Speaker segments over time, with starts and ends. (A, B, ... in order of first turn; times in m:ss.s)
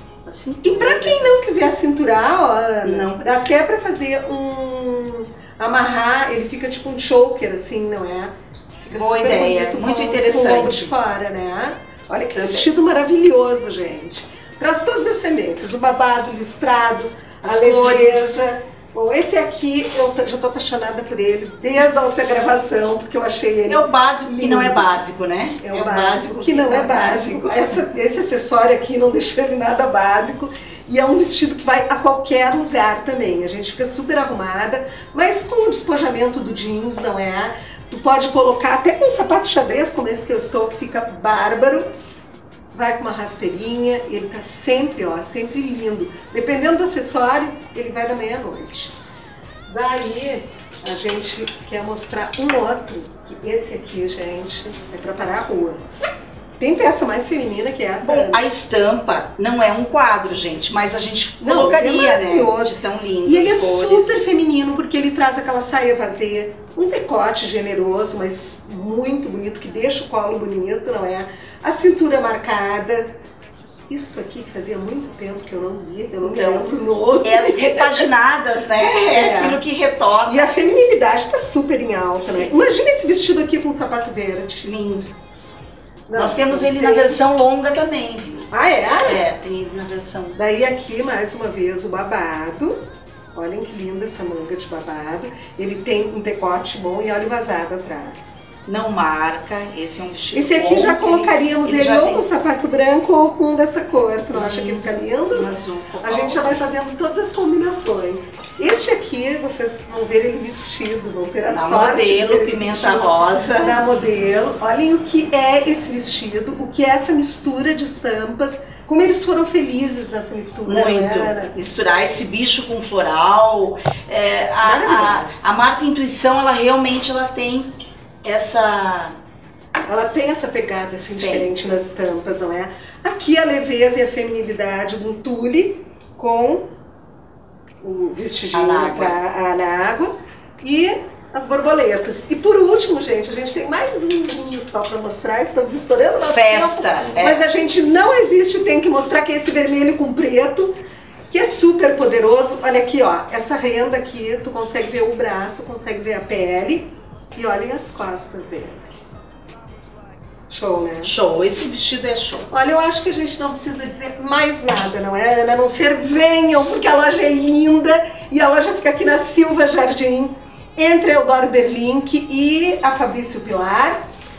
0:00.2-0:01.4 A
0:00.6-0:24.9 B
0:02.8-0:03.6 A
0:08.9-0:10.9 A
0:12.4-0:12.7 A
0:17.4-0:18.4 A
0:23.7-0:28.0 A
0:25.6-0:41.8 B
0:42.7-0:48.9 B
0:49.7-0:55.8 B
0:56.6-0:58.4 B
0:58.0-1:04.2 A
1:01.4-1:13.1 B
1:13.9-1:18.1 B
1:16.2-1:16.7 A
1:17.2-1:20.5 A
1:19.1-1:19.7 B
1:20.2-1:24.7 B
1:22.2-1:22.5 A
1:24.6-1:25.1 A
1:26.1-1:27.2 B
1:26.1-1:28.5 A
1:28.5-1:29.2 B
1:29.0-1:30.4 A
1:30.4-1:32.8 B
1:33.4-1:38.4 B
1:38.7-1:42.3 A
1:40.3-1:45.5 B
1:44.3-1:46.5 A
1:46.0-2:01.5 B
1:51.5-1:53.8 A
2:00.6-2:07.7 A
2:04.6-2:05.6 B
2:08.2-2:09.1 A
2:09.9-2:16.7 B
2:11.2-2:11.5 A
2:17.8-2:30.8 B
2:18.5-2:19.2 A
2:26.2-2:27.4 A
2:31.3-2:38.9 B
2:40.5-2:41.2 B
2:41.0-2:42.7 A
2:42.5-2:54.0 B